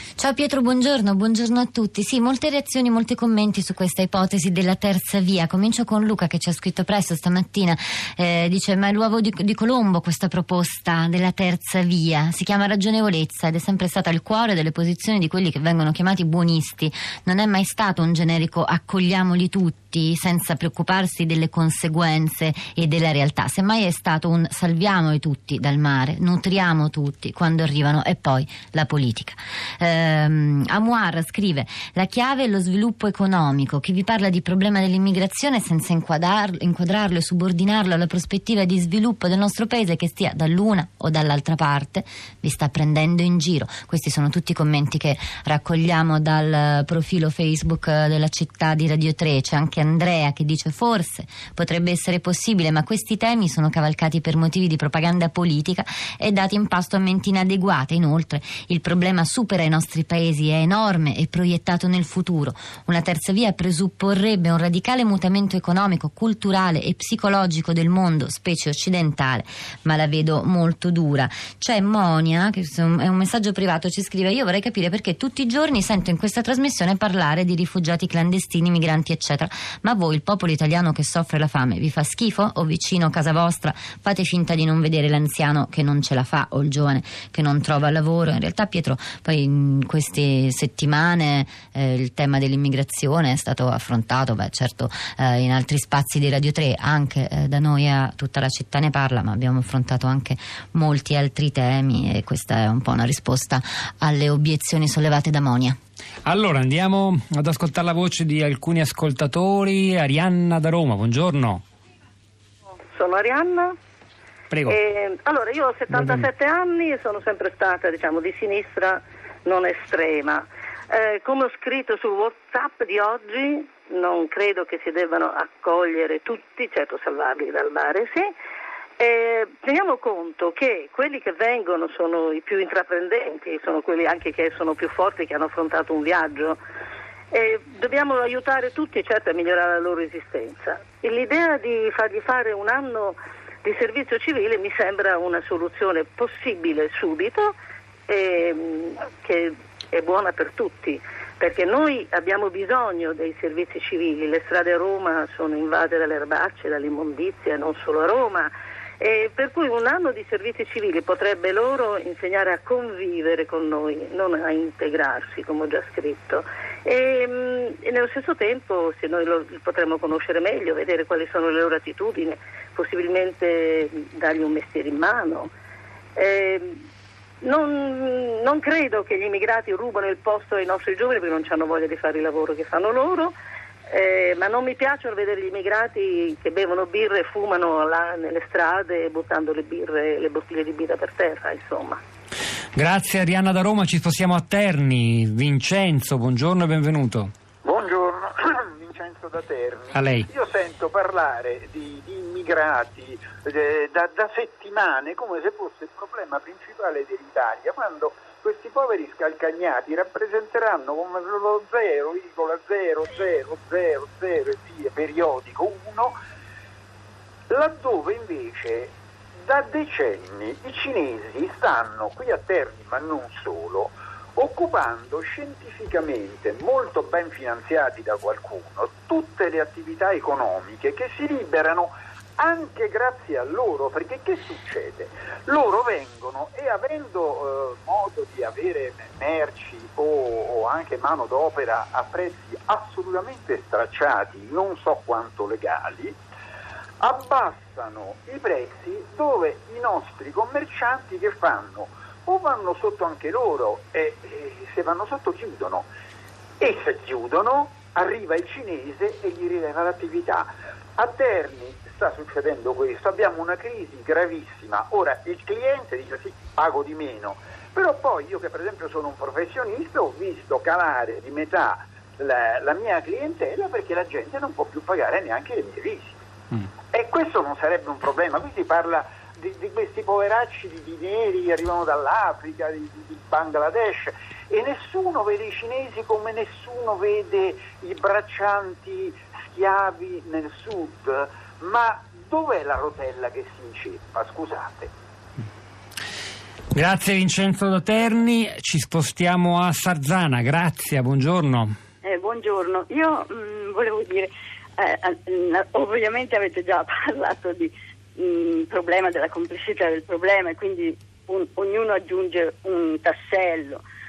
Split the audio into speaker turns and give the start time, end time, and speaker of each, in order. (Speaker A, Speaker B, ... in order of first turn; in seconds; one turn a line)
Speaker A: 0.2-105.8
Speaker B: 106.2-111.6
Speaker C: 112.9-113.7
Speaker B: 114.5-114.8
Speaker C: 114.7-128.3
Speaker B: 115.9-116.2
Speaker C: 129.0-136.6
Speaker C: 137.3-147.5
Speaker C: 148.1-175.5
Speaker C: 176.2-176.8
Speaker C: 177.4-183.3
Speaker C: 183.9-192.0
Speaker B: 192.8-197.3
Speaker D: 197.6-216.2
Speaker B: 199.9-200.3
Speaker D: 217.5-246.2
Speaker D: 247.0-255.9
Speaker D: 256.6-276.2
Speaker D: 276.9-294.9
Speaker B: 296.8-301.7
Speaker E: 302.0-313.8